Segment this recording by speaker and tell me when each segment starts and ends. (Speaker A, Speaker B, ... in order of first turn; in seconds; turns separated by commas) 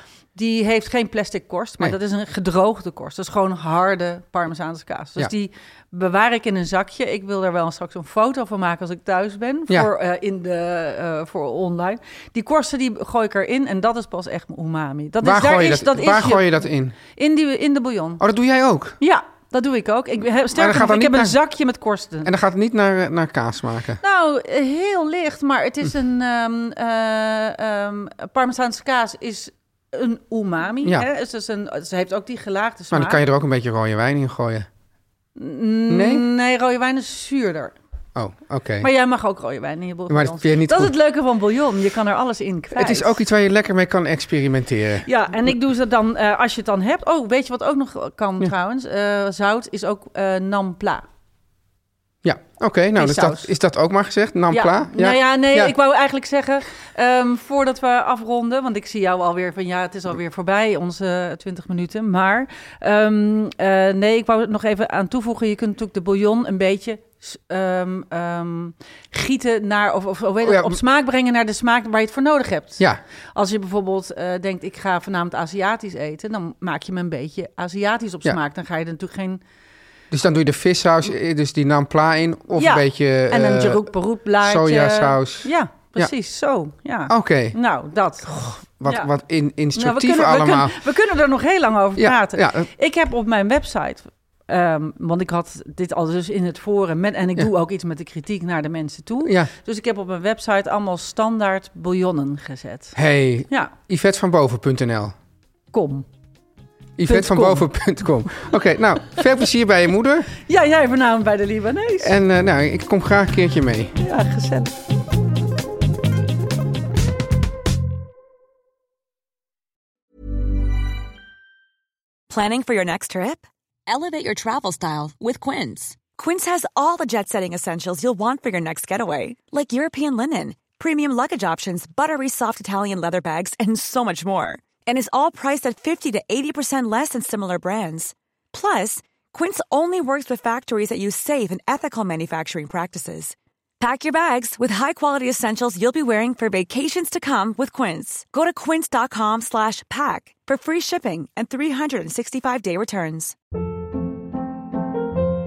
Speaker A: 0.3-18.2, Speaker B: 15.2-17.0, Speaker B: 18.2-19.0, Speaker A: 19.0-22.3, Speaker B: 20.6-21.4, Speaker B: 22.2-24.0, Speaker A: 24.0-33.2, Speaker B: 32.9-34.7, Speaker A: 35.4-37.7, Speaker B: 35.9-36.2, Speaker B: 38.2-38.9, Speaker A: 38.8-43.2, Speaker B: 40.1-40.9, Speaker B: 42.7-45.1, Speaker A: 45.0-51.1, Speaker B: 52.2-55.8, Speaker A: 53.0-53.5, Speaker A: 54.5-79.4, Speaker B: 70.4-70.8, Speaker B: 80.1-86.1, Speaker A: 82.5-89.1, Speaker B: 87.1-87.6, Speaker B: 88.2-90.8, Speaker A: 89.8-103.0, Speaker B: 92.0-92.7, Speaker B: 99.2-99.5, Speaker B: 103.0-105.2, Speaker A: 105.7-106.1, Speaker B: 107.0-110.3, Speaker A: 107.1-107.7, Speaker A: 110.5-112.2, Speaker B: 112.0-114.0, Speaker A: 114.0-114.8, Speaker C: 122.3-153.4